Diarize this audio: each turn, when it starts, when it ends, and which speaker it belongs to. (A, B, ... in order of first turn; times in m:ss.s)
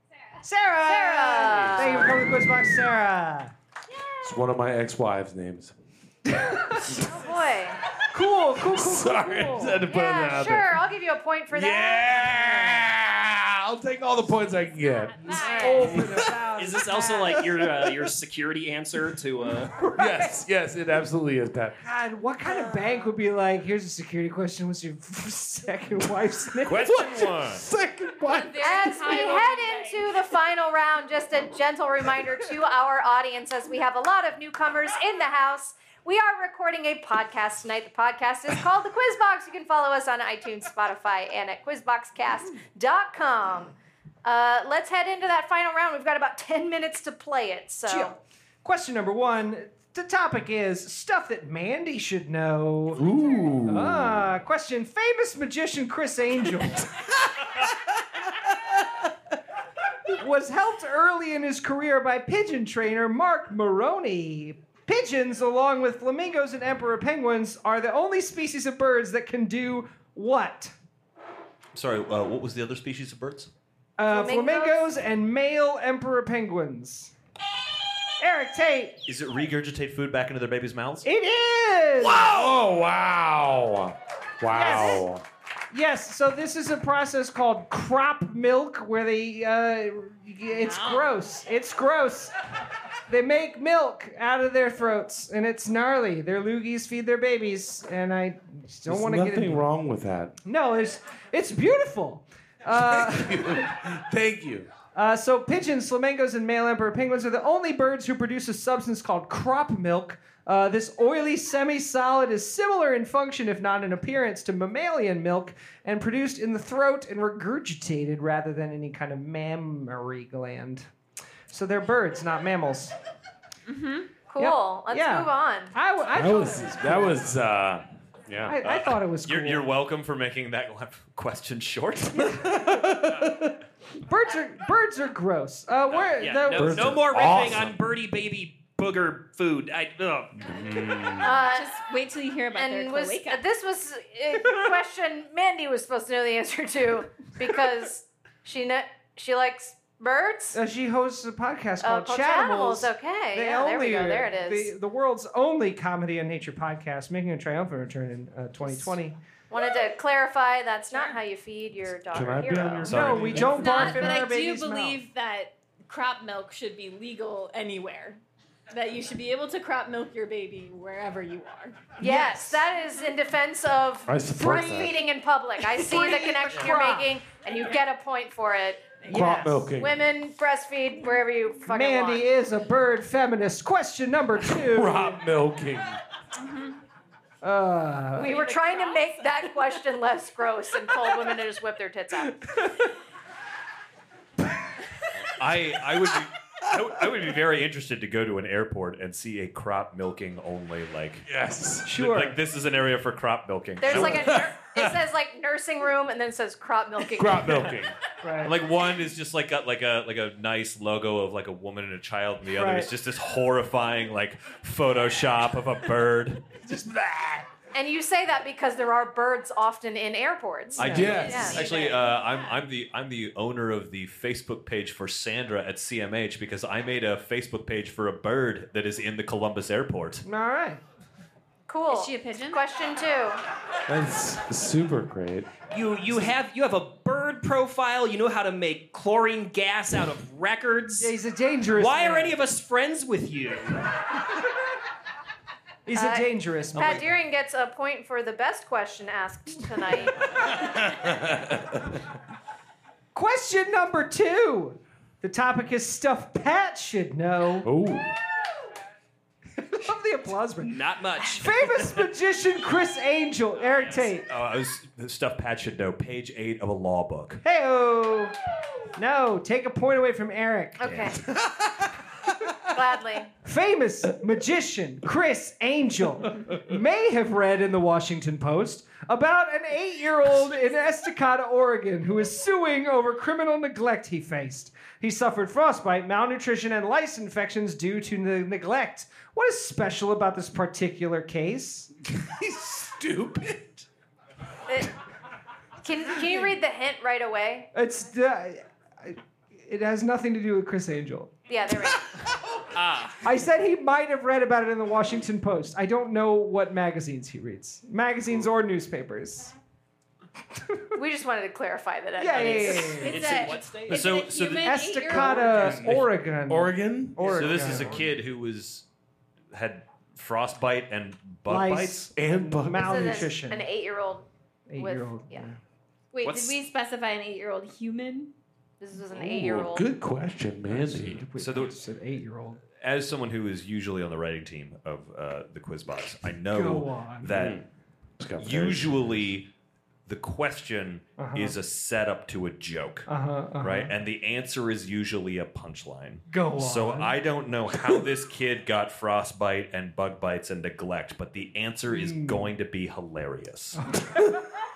0:00.4-0:03.5 A
0:00.8-0:02.3 B
0:04.2-0:05.7 C
0:06.2-0:07.0 A
0:06.8-0:07.8 B
0:06.9-0:07.1 C
0:08.1-0:09.8 A
0:08.6-0:10.8 C
0:09.8-0:12.8 B
0:11.5-0:15.4 C
0:14.7-0:16.1 D
0:15.2-0:17.5 A
0:15.3-0:16.0 B
0:15.9-0:16.3 C
0:16.6-0:19.8 E
0:19.8-0:20.4 A
0:19.9-0:21.8 C
0:21.8-0:26.9 A
0:26.6-0:27.6 F
0:26.7-0:29.2 C
0:28.2-0:30.1 D
0:28.6-0:48.1 B
0:47.8-0:53.0 A
0:52.9-0:54.3 C
0:53.6-0:56.9 A
1:00.1-1:10.7 A
1:11.7-1:13.5 F
1:14.0-1:17.1 A
1:14.1-1:14.9 B
1:18.2-1:19.0 A
1:19.0-1:21.0 F
1:21.0-1:22.5 A
1:22.0-1:25.2 C
1:24.5-1:25.1 A
1:25.7-1:32.3 A
1:30.6-1:31.2 D
1:33.1-1:39.7 A
1:38.9-1:40.4 C
1:40.4-1:43.7 A
1:42.7-1:44.7 C
1:44.9-2:00.9 A
2:01.5-2:02.9 A
2:03.7-2:04.1 D
2:04.3-2:05.7 B
2:04.4-2:07.2 A
2:06.1-2:08.6 C
2:08.4-2:09.7 A
2:08.6-2:12.4 F
2:12.2-2:13.2 A
2:12.5-2:13.5 C
2:14.0-2:17.0 A
2:16.1-2:20.4 E
2:16.5-2:17.8 C
2:20.4-2:21.4 C
2:21.2-2:21.7 B
2:21.4-2:23.4 D
2:22.5-2:30.6 B
2:30.5-2:39.2 A
2:31.8-2:34.7 B
2:39.5-2:43.0 B
2:42.1-2:44.1 C
2:42.8-2:43.6 F
2:42.8-2:45.0 A
2:43.4-2:48.2 D
2:48.7-2:51.9 D
2:52.0-2:52.6 A
2:52.0-2:58.9 B
2:54.1-2:54.9 C
2:55.8-2:57.1 A
2:59.1-2:59.7 A
2:59.1-3:00.0 C
2:59.8-3:02.2 B
3:01.7-3:05.2 A
3:04.4-3:06.0 C
3:06.4-3:06.8 D
3:07.4-3:08.4 A
3:08.2-3:12.6 B
3:08.2-3:09.7 D
3:15.3-3:21.3 F
3:21.3-3:21.9 C
3:21.8-3:22.4 A
3:21.9-3:24.4 F
3:23.8-3:27.8 B
3:23.9-3:24.9 C
3:27.1-3:27.9 C
3:28.2-3:28.5 A
3:28.4-3:36.6 F
3:32.5-3:32.9 A
3:36.6-3:37.4 A
3:37.7-3:41.8 B
3:40.8-3:50.2 F
3:40.8-3:41.1 A
3:40.8-3:41.6 C
3:41.0-3:42.6 D
3:50.2-3:50.8 A
3:51.7-3:53.4 B
3:51.9-3:52.6 D
3:53.9-3:55.5 C
3:55.7-4:01.1 E
4:01.0-4:02.4 A
4:01.7-4:03.8 E
4:05.8-4:07.0 A
4:05.9-4:10.6 B
4:10.6-4:12.0 C
4:13.1-4:17.7 A
4:17.6-4:18.1 C
4:19.6-4:24.2 A
4:20.6-4:21.9 E
4:23.9-4:27.4 F
4:27.4-4:28.3 A
4:29.0-4:30.8 A
4:30.8-4:31.2 B
4:30.9-4:31.2 F
4:31.4-4:31.7 C
4:32.6-4:33.3 B
4:33.4-4:51.9 A
4:52.1-4:53.8 C
4:54.7-4:54.9 B
4:55.8-4:57.7 B
4:56.2-4:56.5 A
4:57.7-5:01.3 A
5:01.5-5:02.1 B
5:02.7-5:03.2 E
5:03.2-5:09.5 A
5:10.9-5:13.5 B
5:12.2-5:13.3 A
5:12.6-5:15.8 D
5:13.0-5:14.1 E
5:13.9-5:15.4 F
5:14.6-5:18.1 A
5:15.3-5:18.0 C
5:17.2-5:18.8 F
5:19.5-5:22.1 F
5:21.4-5:23.6 A
5:22.2-5:23.3 C
5:22.7-5:25.4 B
5:24.7-5:25.6 A
5:26.1-5:28.3 D
5:26.2-5:26.6 E
5:28.8-5:29.8 B
5:29.1-5:31.2 C
5:30.7-5:32.6 A
5:31.4-5:31.7 F
5:32.8-5:37.6 F
5:36.5-5:37.3 A
5:37.3-5:37.6 C
5:38.2-5:39.3 C
5:38.4-5:39.5 F
5:40.0-5:43.1 F
5:41.2-5:41.6 A
5:43.1-5:43.9 A
5:43.6-5:53.8 F
5:46.3-5:47.2 A
5:51.9-5:52.5 A
5:53.8-5:54.4 A